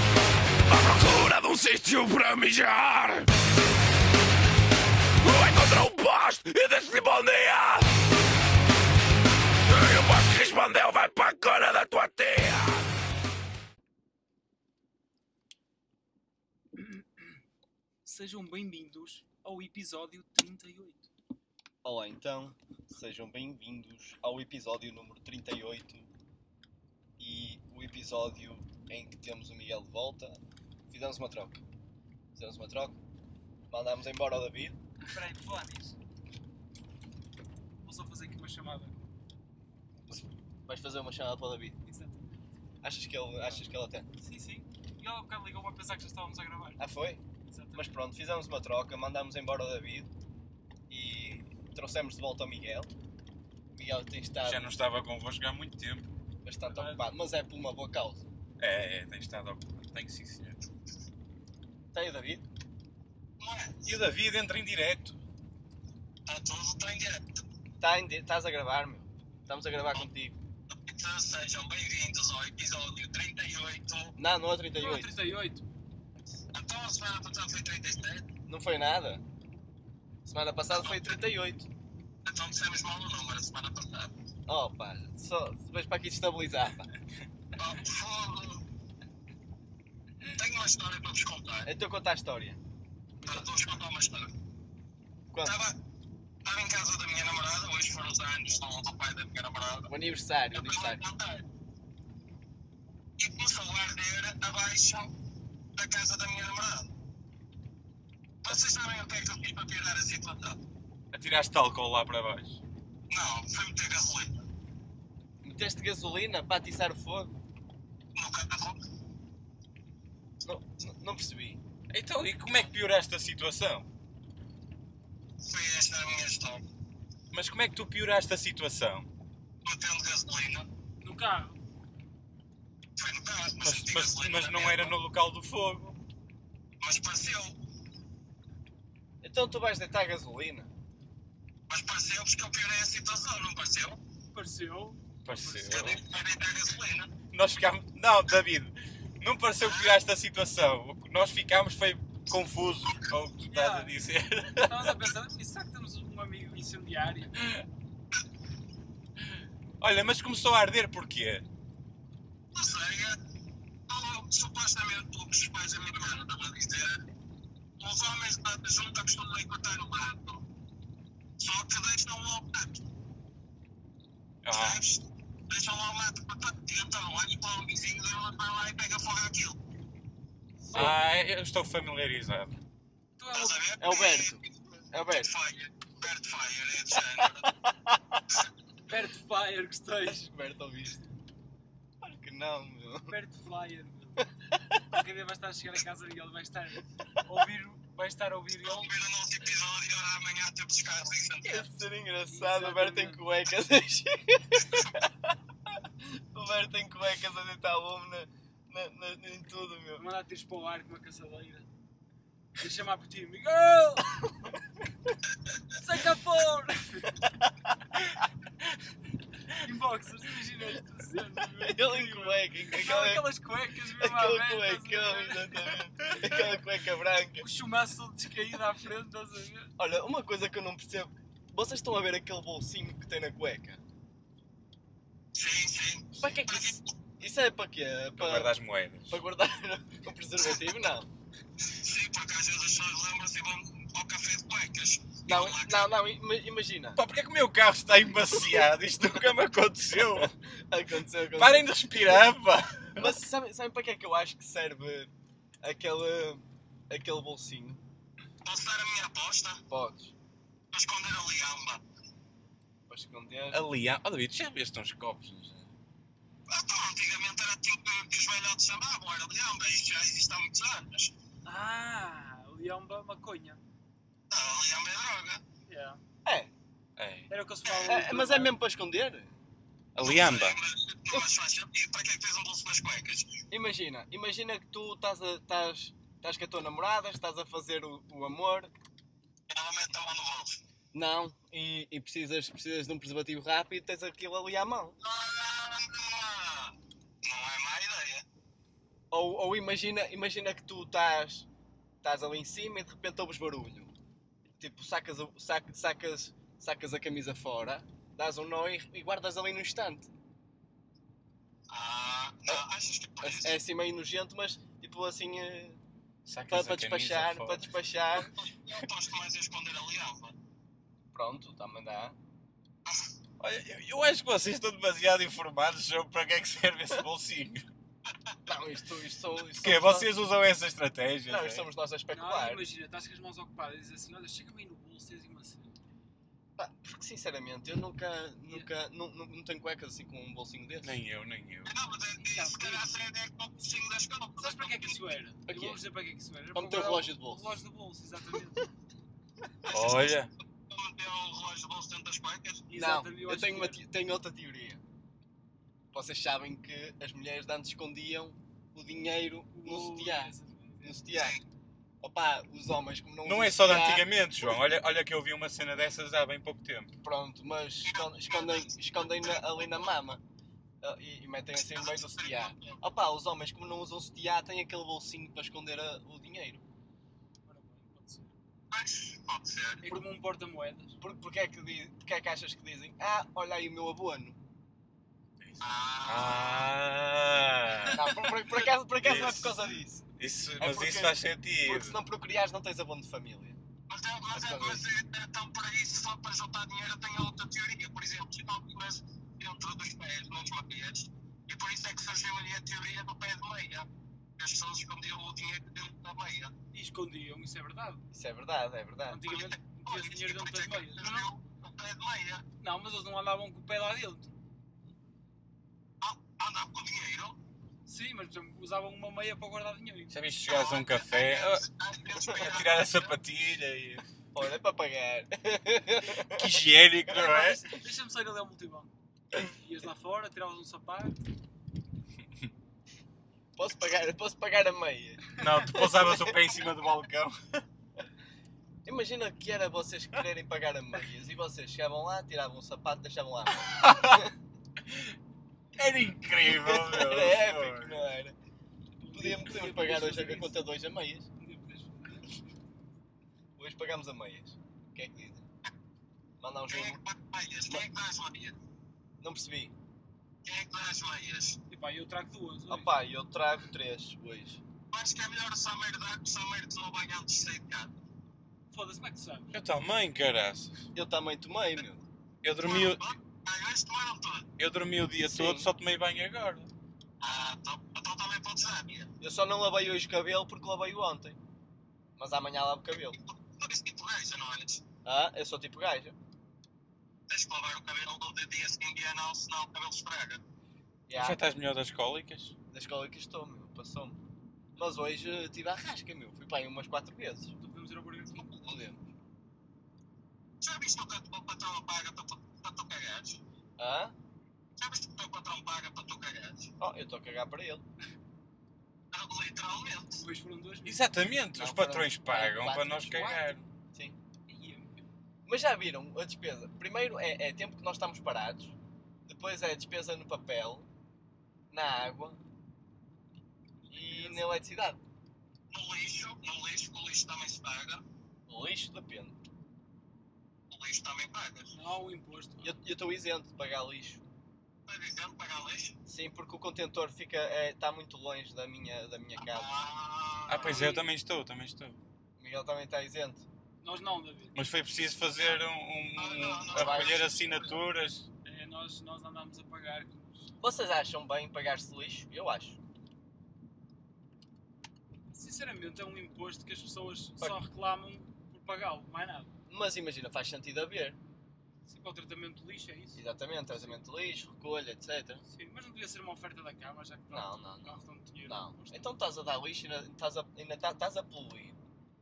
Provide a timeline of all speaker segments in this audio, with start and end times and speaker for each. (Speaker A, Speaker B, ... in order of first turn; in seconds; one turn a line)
Speaker A: 0.7-3.3
Speaker A: 5.2-7.9
Speaker A: 9.7-12.9
Speaker B: 16.8-17.4
Speaker B: 18.0-21.1
Speaker C: 21.8-26.1
Speaker C: 27.2-31.6
Speaker C: 32.3-33.0
Speaker C: 33.7-34.8
Speaker B: 35.0-36.0
Speaker B: 37.8-39.0
Speaker C: 40.1-41.8
Speaker B: 41.8-42.4
Speaker C: 42.8-44.1
Speaker B: 43.4-46.8
Speaker C: 46.8-47.2
Speaker B: 47.5-48.0
Speaker C: 47.8-50.1
Speaker C: 50.9-52.9
Speaker C: 53.7-54.7
Speaker D: 54.4-56.1
Speaker C: 56.4-58.2
Speaker B: 56.6-57.1
Speaker D: 58.6-60.6
Speaker C: 61.9-62.5
Speaker E: 63.4-63.9
Speaker D: 63.8-65.2
Speaker E: 66.2-67.4
Speaker C: 67.8-70.4
Speaker E: 70.7-74.1
Speaker C: 74.2-75.2
Speaker B: 74.8-75.7
Speaker E: 76.5-78.3
Speaker C: 78.4-79.2
Speaker C: 80.2-81.7
Speaker E: 80.7-81.2
Speaker E: 82.2-84.1
Speaker C: 84.5-86.9
Speaker E: 87.5-88.6
Speaker E: 90.2-91.7
Speaker C: 91.6-92.6
Speaker E: 93.2-94.3
Speaker C: 95.3-95.6
Speaker E: 95.4-95.8
Speaker E: 96.4-99.9
Speaker C: 99.9-101.0
Speaker E: 100.5-101.4
Speaker E: 103.2-105.1
Speaker E: 105.8-106.9
Speaker E: 108.4-110.6
Speaker D: 111.1-112.6
Speaker E: 113.1-114.4
Speaker C: 115.4-117.3
Speaker E: 118.1-118.8
Speaker C: 120.4-121.6
Speaker D: 121.9-123.9
Speaker E: 125.4-126.6
Speaker D: 127.3-129.1
Speaker E: 129.6-130.7
Speaker B: 131.0-131.6
Speaker E: 132.9-134.9
Speaker D: 133.6-136.0
Speaker E: 136.8-137.6
Speaker C: 139.2-140.7
Speaker E: 141.7-144.0
Speaker B: 144.3-145.9
Speaker D: 145.2-146.0
Speaker E: 145.7-147.1
Speaker D: 147.3-155.1
Speaker E: 149.6-150.0
Speaker B: 153.5-153.9
Speaker B: 154.6-157.5
Speaker D: 159.8-161.4
Speaker E: 162.5-163.2
Speaker E: 163.9-167.0
Speaker E: 167.8-170.4
Speaker E: 171.4-172.8
Speaker D: 174.4-174.8
Speaker E: 174.5-179.6
Speaker D: 180.7-182.6
Speaker B: 183.2-183.6
Speaker E: 183.3-187.5
Speaker C: 183.8-184.4
Speaker C: 184.9-185.3
Speaker C: 187.4-188.2
Speaker B: 188.9-190.3
Speaker C: 190.0-191.0
Speaker C: 192.0-193.2
Speaker B: 193.1-194.3
Speaker B: 194.8-198.9
Speaker E: 198.6-201.7
Speaker C: 201.4-210.0
Speaker B: 202.3-203.2
Speaker E: 204.6-205.0
Speaker B: 209.9-211.7
Speaker B: 212.6-214.2
Speaker B: 215.7-217.3
Speaker B: 219.6-225.8
Speaker C: 221.6-223.3
Speaker C: 224.0-227.5
Speaker B: 227.4-229.7
Speaker C: 229.8-233.8
Speaker E: 235.3-236.9
Speaker C: 236.2-238.5
Speaker D: 238.2-239.2
Speaker C: 239.1-241.1
Speaker E: 241.7-246.0
Speaker C: 245.3-247.0
Speaker D: 246.9-250.3
Speaker C: 250.4-251.7
Speaker D: 251.3-253.2
Speaker C: 252.9-255.1
Speaker C: 255.6-257.8
Speaker E: 258.4-259.6
Speaker C: 259.7-260.1
Speaker E: 260.7-261.8
Speaker C: 262.9-263.6
Speaker D: 263.5-265.7
Speaker E: 266.5-271.1
Speaker B: 271.4-273.6
Speaker E: 274.3-275.4
Speaker B: 275.7-276.0
Speaker C: 276.2-276.5
Speaker D: 277.0-277.3
Speaker B: 277.3-278.5
Speaker C: 277.8-279.3
Speaker D: 279.9-280.6
Speaker E: 280.0-283.4
Speaker C: 283.5-288.7
Speaker E: 289.5-290.6
Speaker C: 290.9-295.0
Speaker E: 295.0-298.2
Speaker C: 299.1-301.5
Speaker C: 302.0-303.9
Speaker C: 304.6-310.1
Speaker E: 311.7-313.6
Speaker C: 313.2-315.8
Speaker D: 316.2-317.7
Speaker C: 316.5-318.3
Speaker E: 318.4-320.3
Speaker C: 321.1-322.2
Speaker D: 323.4-327.6
Speaker C: 328.4-330.1
Speaker D: 329.6-331.7
Speaker C: 331.3-332.7
Speaker B: 332.1-335.7
Speaker C: 336.6-341.0
Speaker D: 340.8-341.7
Speaker E: 341.6-345.1
Speaker B: 342.3-342.8
Speaker B: 344.4-348.7
Speaker C: 345.5-345.8
Speaker C: 346.5-347.6
Speaker D: 349.7-350.3
Speaker E: 349.7-352.7
Speaker B: 352.7-353.8
Speaker C: 352.7-354.8
Speaker C: 355.9-361.4
Speaker B: 359.5-361.0
Speaker E: 361.1-361.4
Speaker C: 362.0-364.1
Speaker D: 363.2-366.9
Speaker C: 367.0-370.2
Speaker E: 367.8-369.9
Speaker C: 370.8-376.6
Speaker E: 371.5-372.8
Speaker B: 377.4-378.3
Speaker E: 378.7-379.9
Speaker B: 379.8-381.0
Speaker C: 381.0-384.4
Speaker D: 385.4-392.0
Speaker E: 385.6-386.7
Speaker C: 387.9-390.0
Speaker C: 390.6-393.6
Speaker E: 393.9-406.5
Speaker C: 394.3-394.8
Speaker B: 406.7-408.0
Speaker C: 408.1-409.2
Speaker B: 409.1-411.3
Speaker E: 409.3-412.4
Speaker B: 412.6-414.4
Speaker E: 416.0-417.4
Speaker B: 417.9-420.2
Speaker D: 420.1-421.7
Speaker E: 420.4-423.2
Speaker D: 422.2-424.0
Speaker C: 424.3-426.6
Speaker D: 426.2-427.6
Speaker B: 427.1-431.2
Speaker C: 433.6-436.4
Speaker D: 435.4-437.6
Speaker C: 438.8-444.3
Speaker D: 443.6-444.3
Speaker D: 445.7-448.1
Speaker C: 446.4-448.4
Speaker B: 449.0-450.6
Speaker C: 449.1-451.3
Speaker B: 451.4-452.4
Speaker C: 453.6-455.4
Speaker C: 456.4-457.0
Speaker E: 456.7-458.6
Speaker C: 459.2-459.7
Speaker E: 460.4-461.6
Speaker B: 461.7-463.0
Speaker C: 462.7-464.6
Speaker E: 464.9-467.9
Speaker B: 468.7-469.6
Speaker D: 469.5-470.9
Speaker C: 470.9-472.1
Speaker D: 472.4-473.1
Speaker E: 472.6-474.5
Speaker D: 474.6-476.7
Speaker C: 475.2-475.7
Speaker E: 477.2-479.1
Speaker C: 479.2-481.4
Speaker C: 482.2-483.2
Speaker E: 483.1-484.8
Speaker C: 485.0-486.1
Speaker E: 487.3-490.4
Speaker C: 491.1-491.4
Speaker D: 491.1-492.5
Speaker C: 492.7-494.2
Speaker C: 494.8-497.5
Speaker B: 497.6-498.7
Speaker C: 498.5-499.1
Speaker E: 500.6-503.4
Speaker C: 503.8-504.1
Speaker E: 504.8-506.7
Speaker C: 506.8-507.8
Speaker E: 509.1-510.2
Speaker B: 510.1-511.2
Speaker D: 510.8-513.6
Speaker C: 511.6-514.2
Speaker B: 514.5-515.0
Speaker C: 515.4-520.9
Speaker C: 521.7-522.4
Speaker B: 523.9-524.6
Speaker C: 523.9-525.0
Speaker E: 525.7-528.0
Speaker C: 528.5-529.4
Speaker E: 530.7-531.7
Speaker B: 531.7-532.8
Speaker C: 532.6-534.2
Speaker E: 534.9-536.0
Speaker C: 536.0-539.7
Speaker E: 539.5-540.9
Speaker D: 540.5-542.0
Speaker B: 540.5-541.0
Speaker C: 542.4-543.5
Speaker B: 543.8-544.6
Speaker D: 544.5-548.3
Speaker E: 546.1-547.8
Speaker C: 546.7-547.7
Speaker B: 548.4-550.5
Speaker C: 550.6-552.8
Speaker B: 555.3-559.5
Speaker C: 559.7-561.2
Speaker B: 561.8-564.0
Speaker C: 563.1-565.4
Speaker B: 565.4-569.1
Speaker C: 567.3-571.8